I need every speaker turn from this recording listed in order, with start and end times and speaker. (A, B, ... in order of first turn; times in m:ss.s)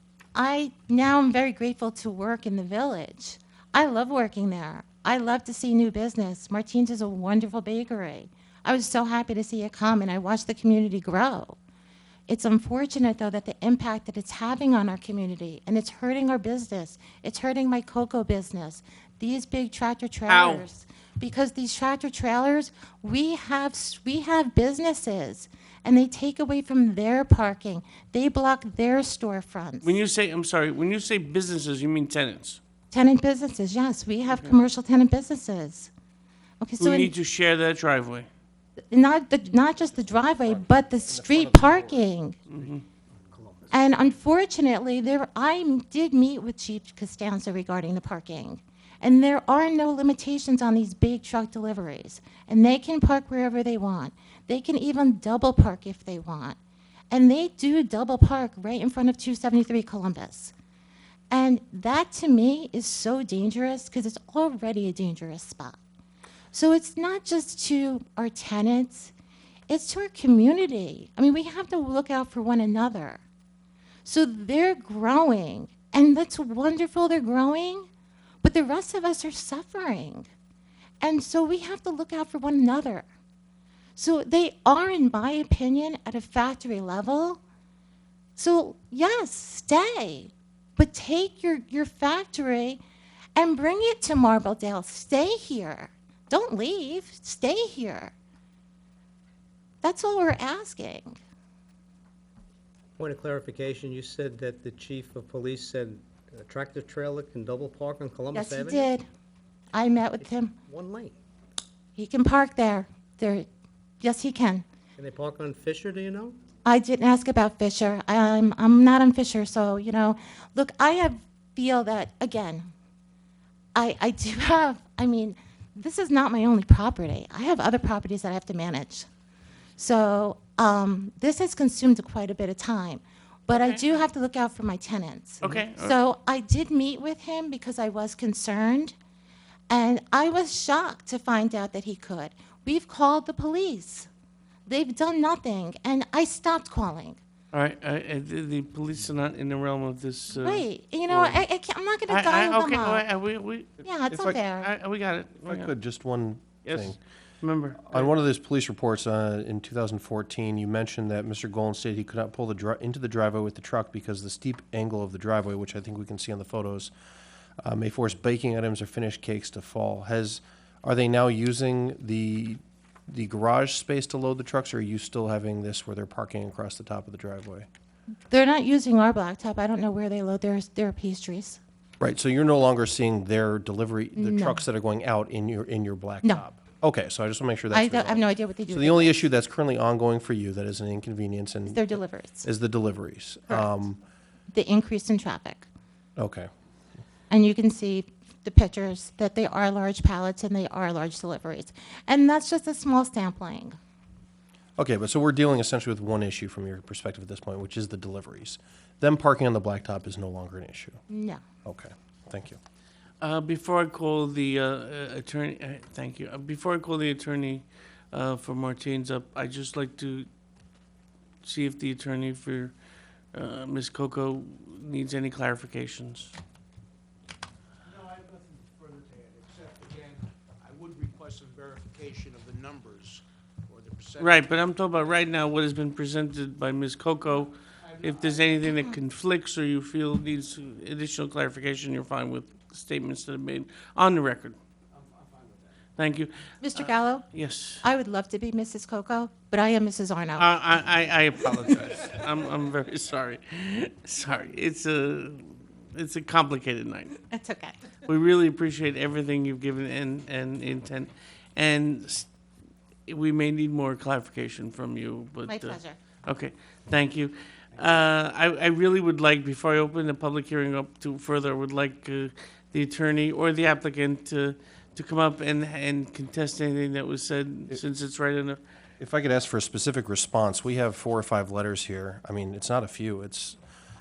0:00.4-0:11.6 A
0:12.3-0:30.0 A
0:20.3-0:20.6 B
0:29.8-0:32.6 B
0:32.9-0:35.9 A
0:34.3-0:34.5 B
0:36.6-0:37.1 A
0:36.8-0:38.3 B
0:38.9-0:42.4 A
0:40.0-0:42.1 C
0:42.5-0:42.8 B
0:43.3-0:43.7 D
0:43.7-0:56.6 A
0:57.1-1:00.5 A
1:01.3-1:05.8 A
1:06.5-1:09.1 A
1:09.7-1:13.2 A
1:14.0-1:17.9 A
1:18.4-1:20.3 A
1:21.0-1:23.1 A
1:24.0-1:27.4 A
1:28.4-1:32.8 A
1:33.4-1:38.1 A
1:39.8-1:41.2 A
1:43.0-1:48.9 D
1:48.3-1:49.1 A
1:49.7-1:50.6 A
1:50.7-1:51.2 D
1:52.0-1:53.5 A
1:54.0-1:54.6 A
1:55.0-1:56.4 D
1:56.6-2:02.7 A
2:03.8-2:09.1 A
2:09.8-2:19.0 A
2:13.5-2:14.0 B
2:15.4-2:16.0 B
2:19.7-2:24.1 A
2:24.7-2:27.2 A
2:27.5-2:31.4 B
2:30.4-2:33.0 A
2:32.1-2:33.8 B
2:33.8-2:34.7 A
2:34.1-2:34.4 C
2:34.4-2:35.7 B
2:35.4-2:37.0 C
2:36.6-2:38.1 B
2:37.8-2:46.9 C
2:47.6-2:57.7 C
2:58.3-3:01.6 A
3:02.0-3:14.0 C
3:04.2-3:04.6 A
3:07.7-3:09.3 A
3:11.7-3:12.5 A
3:14.5-3:15.7 A
3:16.2-3:16.5 C
3:17.3-3:23.8 A
3:24.8-3:31.0 C
3:31.1-3:31.4 A
3:31.6-3:32.6 C
3:33.2-3:40.3 B
3:41.4-3:42.7 B
3:43.3-3:46.4 B
3:47.8-3:54.6 E
3:54.2-4:04.6 B
3:57.8-3:58.8 E
4:04.9-4:05.7 E
4:06.0-4:07.8 B
4:06.6-4:07.3 A
4:07.8-4:10.5 A
4:10.4-4:17.2 B
4:17.3-4:17.8 A
4:18.1-4:22.3 B
4:23.1-4:38.6 B
4:25.5-4:26.0 A
4:39.0-4:43.6 C